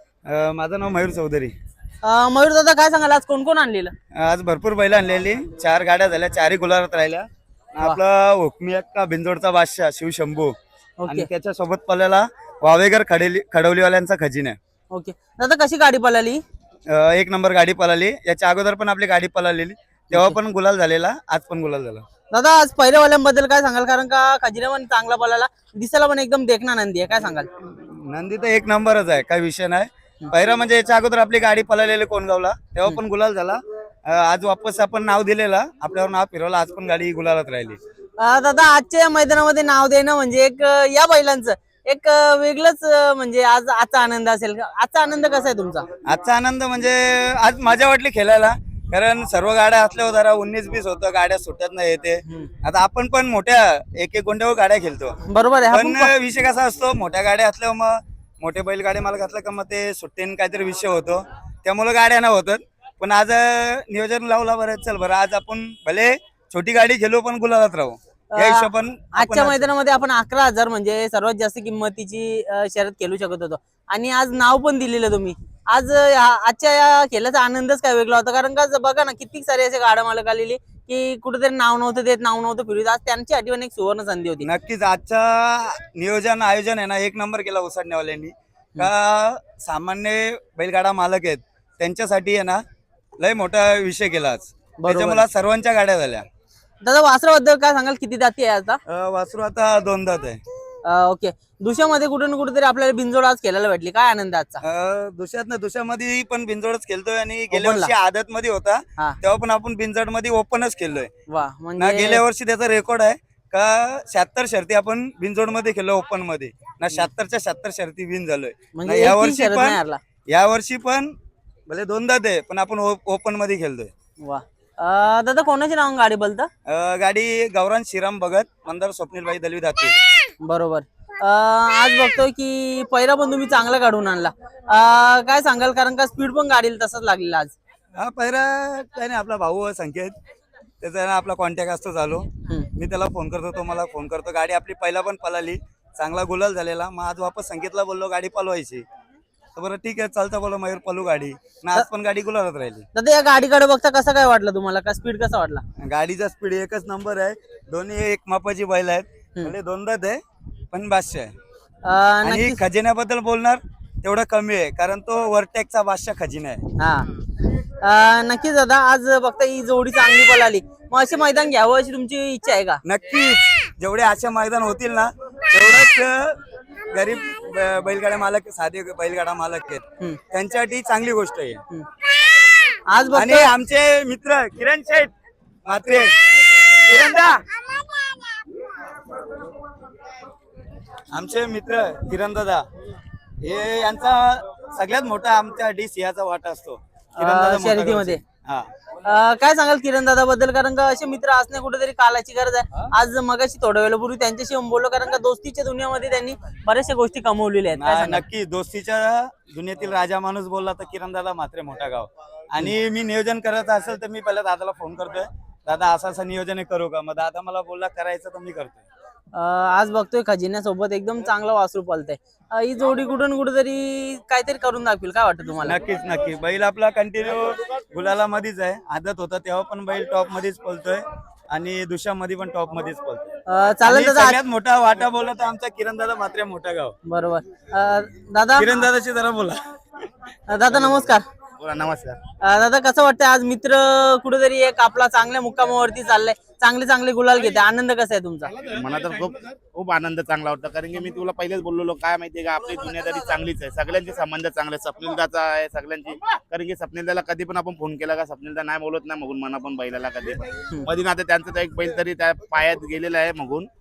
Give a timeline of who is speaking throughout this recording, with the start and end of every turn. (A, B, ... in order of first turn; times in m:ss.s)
0:00.3-0:01.5 A
0:02.0-0:03.9 B
0:04.1-0:10.6 A
0:11.0-0:11.3 B
0:11.1-0:14.6 A
0:14.9-0:16.4 B
0:16.9-0:22.0 A
0:20.1-0:20.4 B
0:22.3-0:27.5 B
0:27.8-0:37.8 A
0:38.2-0:45.8 B
0:46.0-0:55.2 A
0:52.2-0:52.5 B
0:55.3-0:56.1 B
0:55.7-1:09.7 A
1:08.3-1:24.5 B
1:24.4-1:32.6 A
1:33.2-1:36.2 A
1:34.8-1:35.2 B
1:36.8-1:38.8 B
1:38.9-1:40.4 A
1:40.8-1:44.6 B
1:44.6-1:51.1 A
1:47.5-1:47.9 B
1:51.3-1:52.2 B
1:51.8-2:01.1 A
1:58.7-2:00.0 B
2:01.7-2:03.9 A
2:04.2-2:06.5 B
2:06.7-2:10.0 A
2:10.4-2:17.6 B
2:18.0-2:20.2 A
2:20.8-2:28.8 A
2:29.6-2:32.8 A
2:32.9-2:35.6 B
2:35.8-2:40.2 A
2:40.7-2:41.3 A
2:41.8-2:42.6 B
2:42.2-2:46.7 A
2:46.8-2:47.1 B
2:47.8-2:52.8 B
2:52.8-3:01.6 A
3:02.8-3:03.5 B
3:03.1-3:05.1 A
3:05.6-3:08.2 A
3:11.1-3:12.6 A
3:13.4-3:18.7 A
3:17.2-3:18.2 B
3:19.0-3:28.2 B
3:27.8-3:38.8 A
3:39.3-3:45.8 B
3:45.6-3:53.3 A
3:53.5-3:54.4 B
3:53.8-3:57.0 A
3:57.1-3:58.7 B
3:58.6-3:59.6 A
4:00.5-4:01.2 B
4:01.6-4:02.2 C
4:02.4-4:08.6 B
4:08.6-4:23.7 C